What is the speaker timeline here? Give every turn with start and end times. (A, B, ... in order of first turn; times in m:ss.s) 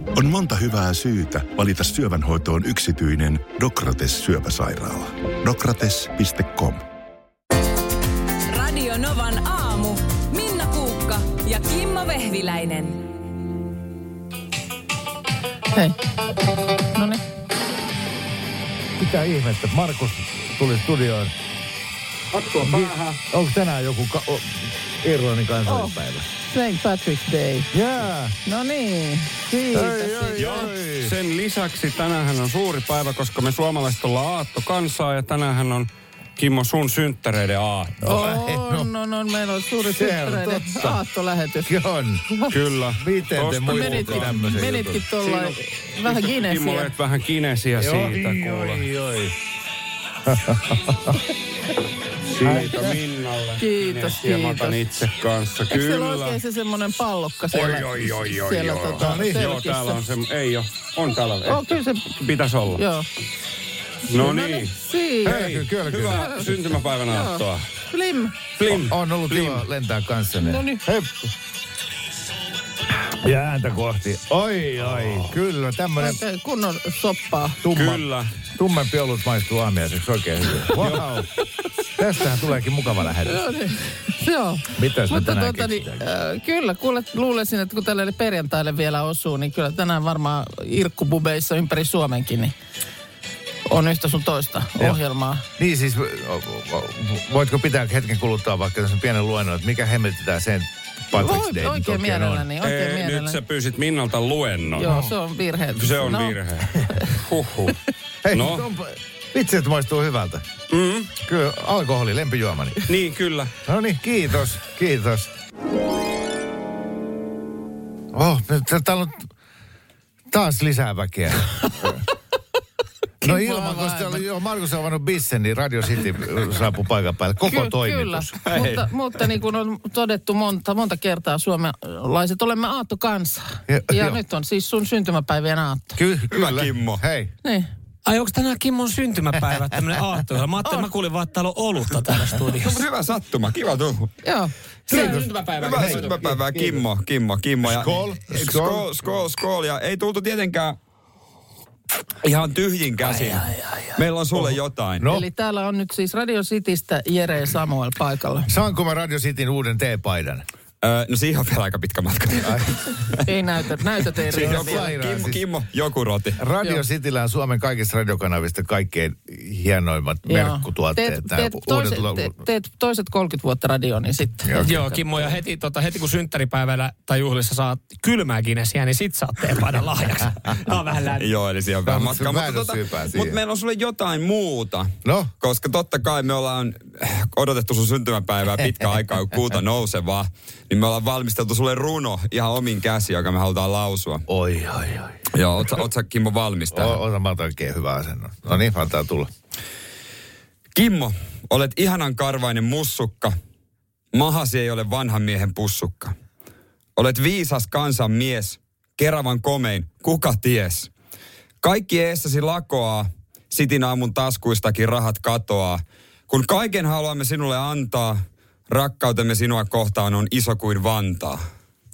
0:00.1-0:06.8 A
0:08.5-0:13.0 B
0:15.7-0:16.0 C
0:16.8-0:17.2 C
0:19.0-0:21.3 D
0:22.3-0:23.2 E
0:22.6-0:26.2 D
0:25.6-0:27.7 C
0:27.7-0:28.4 D
0:28.4-0:30.6 C
0:29.7-0:31.1 D
0:30.4-0:38.0 E
0:38.0-0:38.9 D
0:38.0-0:41.7 C
0:39.9-0:41.0 D
0:41.6-0:42.2 D
0:42.5-0:44.3 E
0:42.9-0:45.0 D
0:43.7-0:46.9 C
0:45.2-0:48.9 E
0:47.8-0:49.3 D
0:50.3-0:51.2 D
0:52.3-0:56.4 E
0:52.4-0:53.0 D
0:53.6-0:54.8 C
0:55.7-1:00.0 C
0:57.5-1:02.8 E
0:59.0-0:59.4 D
1:01.4-1:02.1 C
1:02.7-1:03.1 C
1:04.1-1:07.6 E
1:04.1-1:05.5 C
1:05.2-1:06.3 D
1:06.1-1:08.4 C
1:08.6-1:09.6 E
1:08.6-1:11.2 D
1:10.4-1:10.8 C
1:13.0-1:16.2 D
1:16.0-1:17.6 C
1:17.6-1:21.3 D
1:17.7-1:18.3 E
1:20.8-1:21.0 E
1:22.0-1:23.4 D
1:23.2-1:32.5 C
1:24.8-1:26.0 D
1:33.6-1:35.4 C
1:35.6-1:42.5 D
1:41.1-1:43.4 C
1:42.6-1:44.9 E
1:44.7-1:47.0 C
1:44.8-1:45.1 D
1:45.8-1:47.8 E
1:48.2-1:50.5 D
1:48.3-1:48.6 E
1:50.7-1:51.1 E
1:51.2-1:52.8 D
1:52.8-1:53.5 E
1:53.6-1:55.3 D
1:58.1-1:59.3 D
2:00.3-2:02.0 D
2:03.2-2:08.4 D
2:03.2-2:04.2 C
2:07.4-2:16.0 C
2:13.7-2:14.2 D
2:16.0-2:17.3 D
2:16.2-2:17.0 F
2:18.0-2:22.8 G
2:22.5-2:24.1 F
2:24.2-2:24.5 C
2:24.9-2:26.4 G
2:24.9-2:26.8 D
2:24.9-2:30.8 F
2:27.6-2:28.9 D
2:32.2-2:35.1 F
2:33.0-2:33.4 D
2:34.3-2:35.2 D
2:35.0-2:38.5 C
2:38.5-2:40.4 D
2:40.8-2:43.2 F
2:42.4-2:42.7 D
2:43.2-2:44.9 C
2:44.2-2:46.4 F
2:44.3-2:45.4 D
2:46.4-2:52.4 D
2:50.3-2:54.6 C
2:54.4-2:55.3 D
2:54.6-3:01.3 G
3:01.1-3:14.2 F
3:01.8-3:03.4 D
3:05.0-3:05.3 D
3:14.3-3:15.2 D
3:15.3-3:17.0 F
3:16.7-3:19.3 D
3:20.7-3:23.4 F
3:24.1-3:26.1 F
3:27.0-3:30.9 F
3:31.6-3:41.4 F